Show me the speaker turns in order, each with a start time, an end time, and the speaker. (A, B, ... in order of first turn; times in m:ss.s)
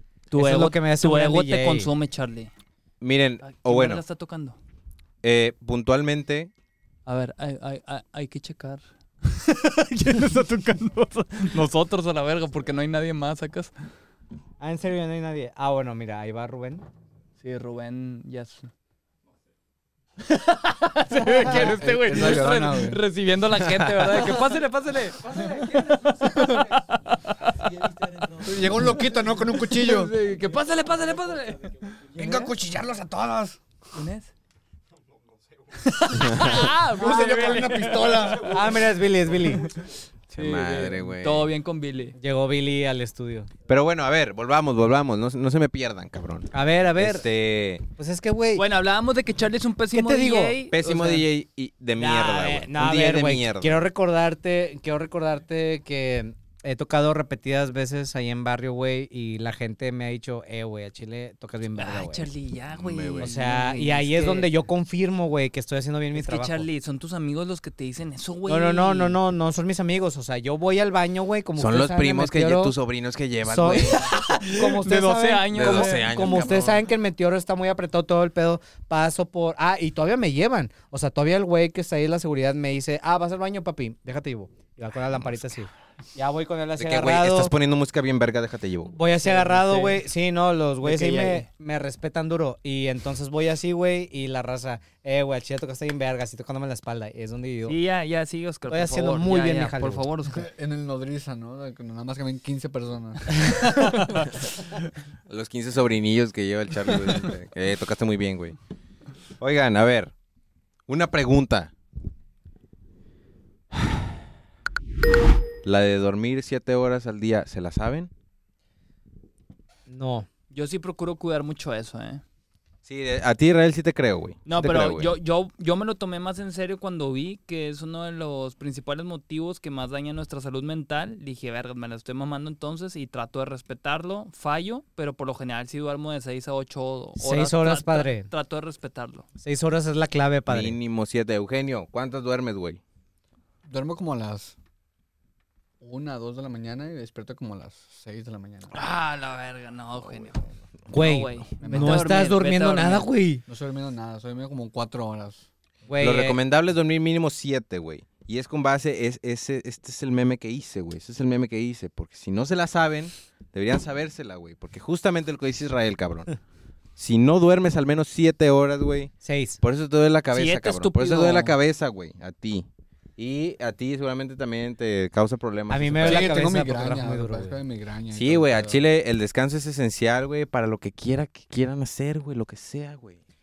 0:00.3-0:02.5 A
0:00.3-0:01.9 B
0:03.0-0:04.0 C
0:03.4-0:04.6 A
0:05.2-0:06.5 C
0:07.1-0:13.7 A
0:14.6-0:16.8 B
0:17.4-0:18.7 A
0:20.2-0:32.5 A
0:21.3-0:23.0 D
0:23.7-0:23.9 C
0:28.4-0:30.2 D
0:32.2-0:33.6 D
0:33.9-0:34.3 A
0:35.8-0:38.5 A
0:36.2-0:36.7 C
0:36.9-0:38.8 D
0:38.4-0:39.7 B
0:39.5-0:42.2 A
0:40.3-0:41.5 C
0:42.2-0:43.5 B
0:43.7-0:47.8 C
0:46.5-0:47.3 B
0:48.0-0:48.6 B
0:48.6-0:51.2 A
0:49.9-0:50.6 B
0:50.7-0:53.8 C
0:52.0-1:02.3 B
1:01.8-1:04.5 A
1:02.7-1:03.3 C
1:03.2-1:06.7 B
1:06.2-1:09.2 A
1:08.5-1:12.7 B
1:11.6-1:14.1 C
1:13.4-1:27.5 B
1:14.0-1:16.7 A
1:15.5-1:16.8 C
1:26.8-1:29.0 C
1:28.9-1:37.8 B
1:29.2-1:30.0 A
1:30.8-1:31.5 A
1:37.7-1:40.5 A
1:38.7-1:40.1 B
1:40.3-1:44.3 D
1:43.7-1:44.1 A
1:45.3-1:48.6 C
1:49.4-1:50.1 C
1:50.9-1:51.7 C
1:55.6-1:58.1 C
1:59.9-2:00.3 B
2:00.5-2:02.2 A
2:02.8-2:05.1 C
2:04.5-2:19.2 A
2:17.2-2:18.3 B
2:19.4-2:20.8 B
2:20.5-2:22.8 C
2:23.6-2:24.6 D
2:25.8-2:28.8 D
2:28.7-2:33.1 A
2:30.9-2:33.4 B
2:31.6-2:32.0 D
2:33.5-2:35.5 D
2:35.9-2:36.4 B
2:36.0-2:46.4 C
2:47.0-2:56.3 C
2:49.2-2:49.6 B
2:50.3-2:51.6 A
2:55.7-2:57.6 B
2:56.0-2:58.8 D
2:58.1-3:03.2 C